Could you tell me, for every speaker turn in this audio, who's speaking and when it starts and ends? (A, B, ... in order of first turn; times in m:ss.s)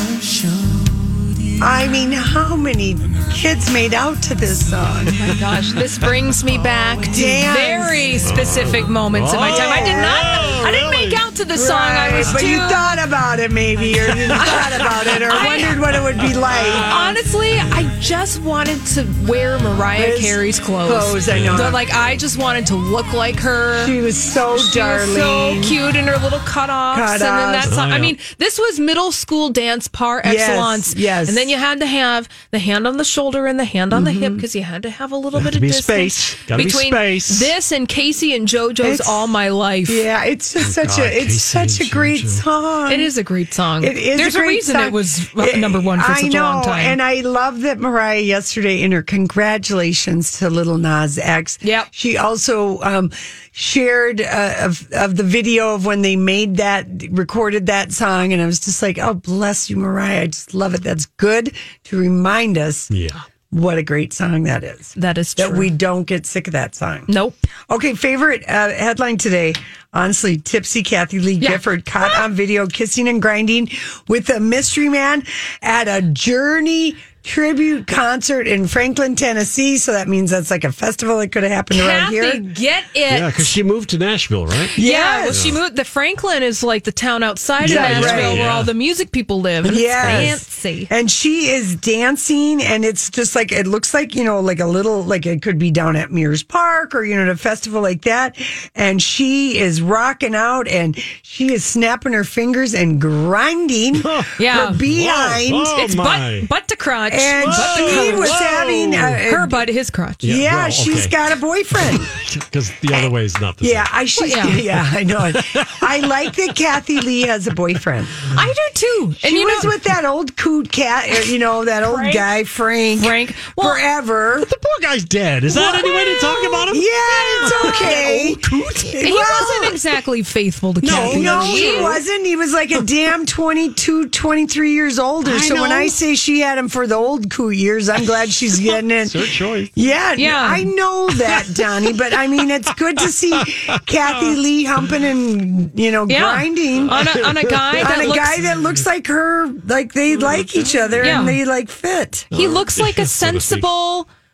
0:01.6-0:05.2 A
0:05.1-0:13.0 B
0:07.1-0:08.1 A
0:08.2-0:11.2 C
0:09.4-0:10.2 A
0:11.5-0:17.1 A
0:14.0-0:15.2 C
0:14.3-0:15.8 B
0:16.2-0:17.0 C
0:16.8-0:23.9 B
0:20.0-0:21.8 A
0:21.3-0:21.8 C
0:23.8-0:25.8 A
0:24.5-0:40.0 B
0:26.9-0:27.7 A
0:27.6-0:28.2 C
0:30.2-0:31.5 A
0:33.9-0:34.4 A
0:35.3-0:37.5 C
0:38.8-0:39.3 A
0:39.8-0:43.1 A
0:40.6-0:42.4 C
0:42.9-0:47.0 B
0:43.8-1:02.9 A
0:51.6-0:51.9 B
1:02.9-1:03.2 C
1:03.5-1:07.1 A
1:05.0-1:05.7 B
1:07.1-1:07.5 B
1:07.7-1:22.4 A
1:11.4-1:12.2 B
1:21.7-1:23.6 B
1:23.1-1:24.7 C
1:24.7-1:30.9 B
1:24.8-1:25.4 A
1:25.3-1:25.6 C
1:27.6-1:28.4 A
1:27.6-1:28.7 C
1:29.6-1:45.8 A
1:30.0-1:30.4 C
1:44.0-1:46.5 C
1:44.4-1:44.8 B
1:45.7-1:48.4 B
1:47.1-1:49.6 A
1:47.4-1:49.2 C
1:49.0-1:50.3 B
1:50.2-1:51.2 C
1:50.2-1:52.1 A
1:51.7-1:53.9 C
1:52.9-1:58.2 A
1:54.2-1:54.6 B
1:54.8-1:56.1 C
1:58.3-1:59.7 B
1:59.2-2:04.5 A
2:01.8-2:02.2 B
2:03.0-2:03.8 B
2:04.4-2:09.4 C
2:05.5-2:08.0 B
2:06.7-2:09.8 A
2:09.0-2:12.0 B
2:10.8-2:12.0 C
2:10.9-2:32.3 A
2:15.2-2:15.9 B
2:19.0-2:19.7 C
2:20.2-2:20.7 B
2:23.1-2:24.3 C
2:26.1-2:28.4 B
2:26.9-2:27.9 C
2:28.4-2:28.8 C
2:30.2-2:31.4 C
2:31.0-2:31.4 B
2:32.3-2:33.6 C
2:32.3-2:34.1 B